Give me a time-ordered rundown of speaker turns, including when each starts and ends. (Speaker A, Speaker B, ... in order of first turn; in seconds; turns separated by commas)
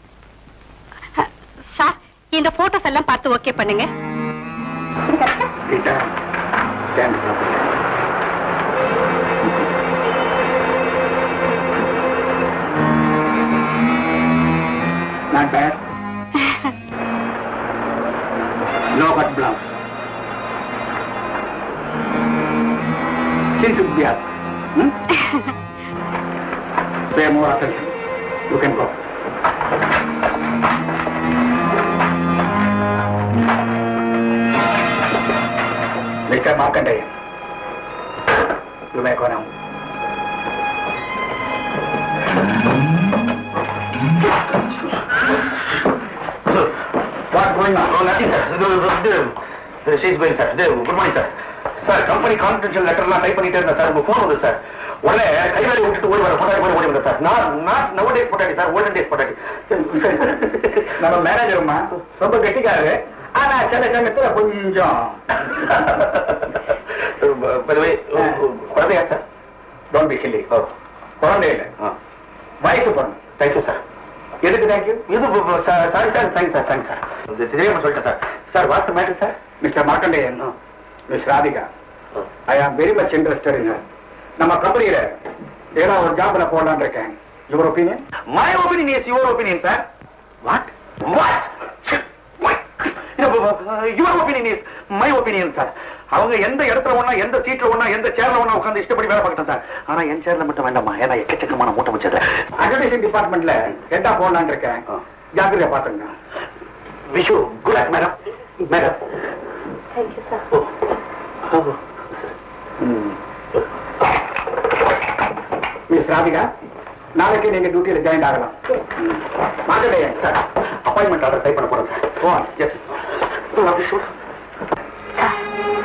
Speaker A: 1.8-3.9, Speaker A: 5.1-5.4, Speaker B: 5.6-6.0, Speaker B: 7.0-7.7, Speaker B: 15.3-15.8, Speaker B: 18.9-19.7, Speaker B: 23.6-24.9, Speaker B: 27.1-27.9, Speaker B: 28.5-28.9, Speaker B: 36.3-37.1, Speaker B: 38.9-39.5, Speaker B: 47.3-48.0, Speaker C: 47.8-49.3, Speaker C: 49.8-51.3, Speaker C: 51.8-60.9, Speaker B: 61.0-65.2, Speaker C: 65.5-66.2, Speaker C: 67.2-69.2, Speaker B: 69.9-70.5, Speaker B: 71.2-71.7, Speaker B: 72.6-73.3, Speaker C: 73.4-73.8, Speaker B: 74.4-75.0, Speaker C: 75.1-79.4, Speaker B: 79.6-80.5, Speaker B: 81.1-81.7, Speaker B: 82.5-83.8, Speaker B: 84.4-85.2, Speaker B: 85.8-88.0, Speaker C: 88.3-89.8, Speaker C: 90.4-102.2, Speaker B: 102.6-104.8, Speaker B: 105.4-106.1, Speaker C: 107.1-108.9, Speaker C: 111.5-111.8, Speaker B: 112.8-113.2, Speaker B: 115.9-116.4, Speaker B: 117.2-120.3, Speaker C: 120.2-122.8, Speaker B: 122.2-122.5, Speaker C: 123.5-124.1